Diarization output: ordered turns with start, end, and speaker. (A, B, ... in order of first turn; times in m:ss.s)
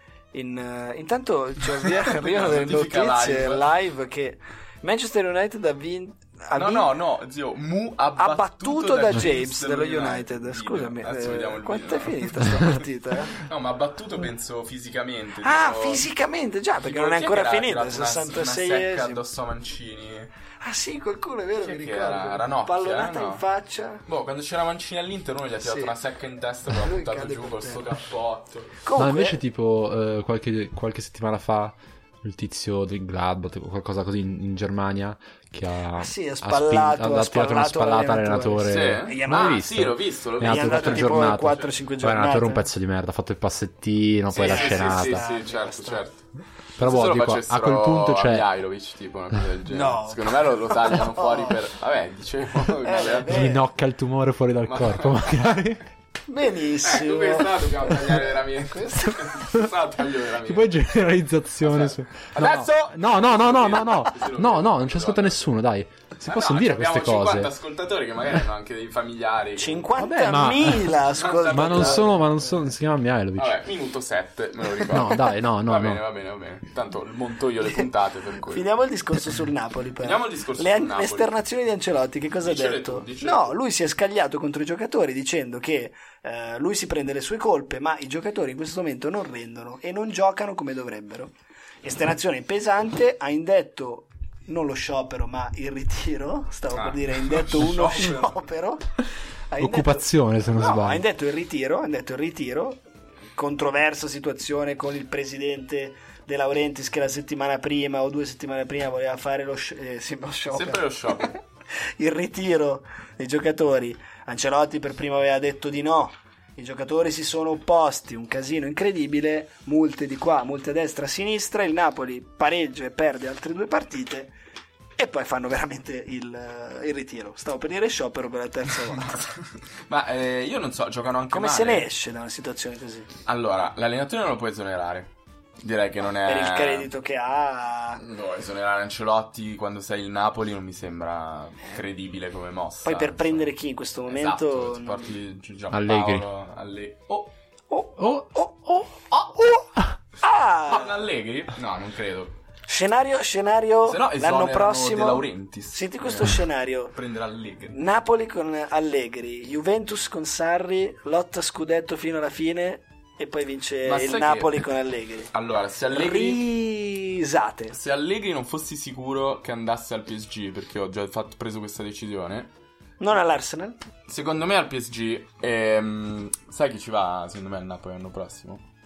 0:00.3-0:06.9 A
0:02.0-0:03.7 B
0:06.5-0:16.0 B
0:08.2-0:13.4 A
0:15.4-0:19.2 A
0:16.8-0:20.3 B
0:20.6-0:24.0 A
0:21.6-0:23.4 B
0:24.0-0:28.8 B
0:25.6-0:25.9 A
0:26.8-0:27.8 A
0:28.8-0:29.4 A
0:29.0-0:45.2 C
0:36.0-0:39.7 A
0:38.6-0:41.7 B
0:40.4-0:42.7 A
0:44.3-0:46.0 A
0:44.3-0:46.2 B
0:46.8-0:53.5 B
0:46.8-0:48.4 C
0:49.7-0:51.5 A
0:52.8-0:53.6 A
0:53.2-0:55.8 C
0:54.6-0:55.3 B
0:56.3-0:59.4 A
0:56.8-1:00.8 B
0:59.4-0:59.7 C
1:00.4-1:07.5 C
1:01.6-1:05.5 B
1:06.2-1:09.9 B
1:09.6-1:12.4 A
1:10.0-1:10.9 C
1:11.0-1:12.2 B
1:11.5-1:13.6 C
1:13.4-1:18.7 B
1:14.9-1:16.0 C
1:18.4-1:42.8 A
1:20.0-1:21.3 B
1:22.4-1:23.6 B
1:36.7-1:38.4 B
1:39.6-1:41.0 C
1:43.3-1:51.4 A
1:50.5-1:51.4 B
1:52.0-2:04.3 A
2:05.0-2:09.3 A
2:08.9-2:09.3 B
2:09.9-2:11.8 B
2:11.3-2:13.1 A
2:13.2-2:16.9 B
2:16.2-2:18.0 A
2:18.0-2:23.5 B
2:22.8-2:25.1 A
2:24.1-2:27.3 B
2:25.7-2:26.2 C
2:27.7-2:28.6 A
2:28.0-2:29.9 C
2:30.2-2:31.0 A
2:30.6-2:32.4 B
2:32.7-2:36.9 A
2:33.8-2:36.4 B
2:36.9-2:37.8 B
2:37.7-2:45.3 A
2:43.8-2:44.6 B
2:45.3-2:46.4 B
2:45.9-2:47.7 A
2:47.7-2:52.5 B
2:53.0-2:53.8 A
2:54.1-2:58.6 B